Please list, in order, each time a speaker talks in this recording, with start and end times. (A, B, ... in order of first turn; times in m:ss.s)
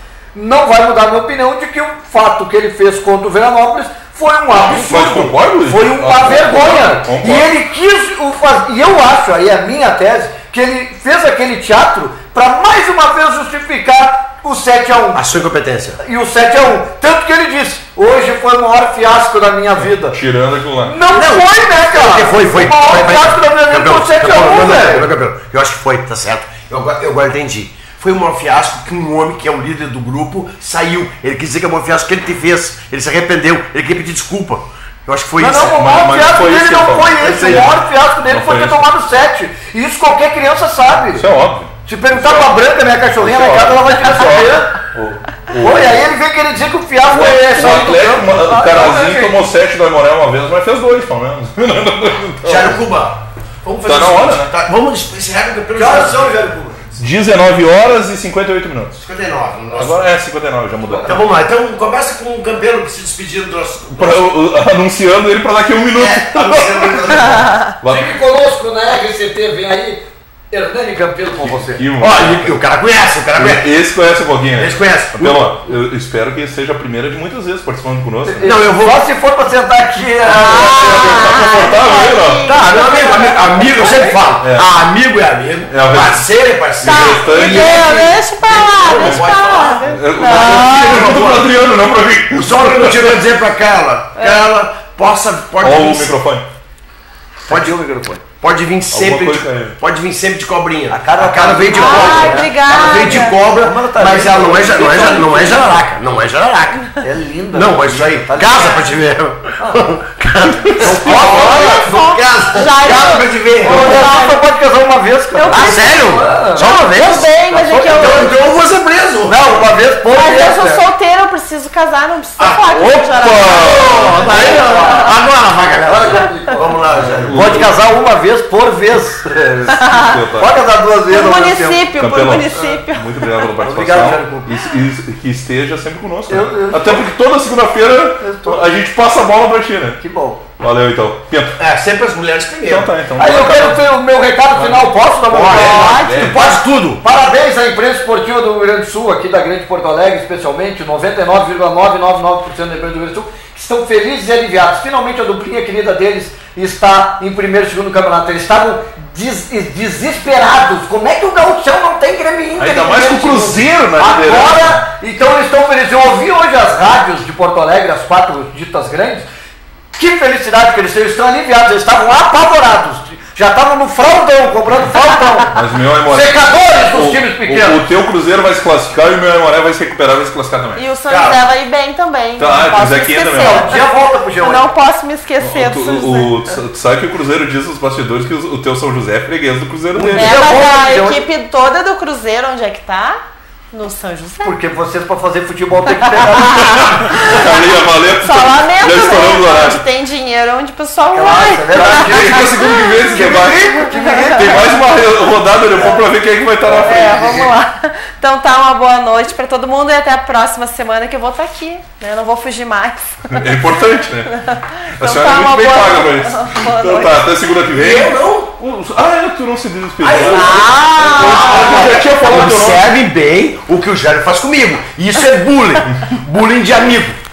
0:00.3-0:15.2 A
0:04.5-0:07.5 B
0:15.1-0:16.0 C
0:16.0-0:20.2 A
0:19.8-0:21.0 B
0:20.8-0:25.1 A
0:21.1-0:36.0 C
0:35.4-0:41.2 A
0:35.6-0:38.8 B
0:37.2-0:37.7 C
0:41.1-0:46.0 B
0:41.8-0:44.7 A
0:45.6-0:49.4 A
0:47.1-0:52.8 B
0:52.4-0:56.3 C
0:53.8-0:54.5 B
0:55.7-0:57.0 A
0:57.0-0:59.0 B
0:59.0-1:00.0 C
0:59.7-1:01.2 B
1:00.9-1:01.1 A
1:01.0-1:04.2 C
1:04.0-1:08.1 B
1:06.0-1:07.5 C
1:07.8-1:10.0 A
1:10.5-1:11.8 A
1:11.4-1:12.6 B
1:12.0-1:13.7 C
1:13.4-1:18.5 B
1:14.6-1:15.5 C
1:18.2-1:21.3 A
1:18.4-1:19.0 C
1:20.3-1:23.4 D
1:20.5-1:22.4 B
1:22.4-1:31.5 C
1:24.4-1:24.6 B
1:25.7-1:26.3 B
1:26.8-1:27.9 B
1:26.8-1:31.1 D
1:28.9-1:33.2 B
1:32.3-1:36.1 C
1:34.2-1:34.4 D
1:35.6-1:36.4 B
1:37.5-1:38.2 A
1:37.5-1:46.9 C
1:38.9-1:39.8 B
1:40.9-1:45.8 A
1:41.8-1:43.3 D
1:47.0-1:48.9 A
1:47.5-1:54.1 C
1:50.6-1:51.6 B
1:50.8-1:52.1 A
1:51.1-1:54.4 D
1:53.6-1:58.4 A
1:55.3-1:56.0 D
1:55.5-1:57.3 C
1:56.6-1:58.3 D
1:58.0-1:59.5 C
1:59.2-2:00.8 A
2:00.1-2:04.9 D
2:03.2-2:04.2 B
2:03.2-2:07.6 C
2:04.2-2:05.1 A
2:05.8-2:09.8 A
2:07.0-2:07.7 B
2:09.7-2:10.6 B
2:09.8-2:10.2 D
2:10.4-2:11.8 A
2:11.1-2:13.5 D
2:12.0-2:20.0 B
2:13.6-2:14.5 A
2:16.3-2:17.1 A
2:18.2-2:18.6 A
2:20.0-2:20.4 A
2:20.6-2:21.6 B
2:21.6-2:22.9 C
2:22.7-2:23.8 B
2:23.2-2:49.3 A
2:24.5-2:26.5 B
2:25.3-2:27.0 C
2:25.7-2:26.2 D
2:42.6-2:44.9 B
2:49.9-2:55.5 A
2:55.5-3:00.8 B
2:56.1-2:57.8 A
3:00.8-3:03.8 D
3:01.1-3:01.4 C
3:02.4-3:03.7 B
3:03.4-3:04.7 A
3:04.4-3:06.4 D
3:05.4-3:10.3 B
3:10.0-3:10.3 C
3:10.0-3:11.2 A
3:10.1-3:13.2 D
3:13.7-3:14.5 D
3:14.4-3:16.9 A
3:16.6-3:17.5 D
3:16.7-3:19.8 B
3:18.2-3:24.5 D
3:21.1-3:22.5 A
3:21.7-3:27.5 B
3:23.0-3:24.8 A
3:26.7-3:33.6 D
3:33.3-3:34.3 B
3:34.3-3:37.5 D
3:35.0-3:42.8 B
3:37.7-3:38.5 C
3:40.0-3:47.2 C
3:40.1-3:42.0 D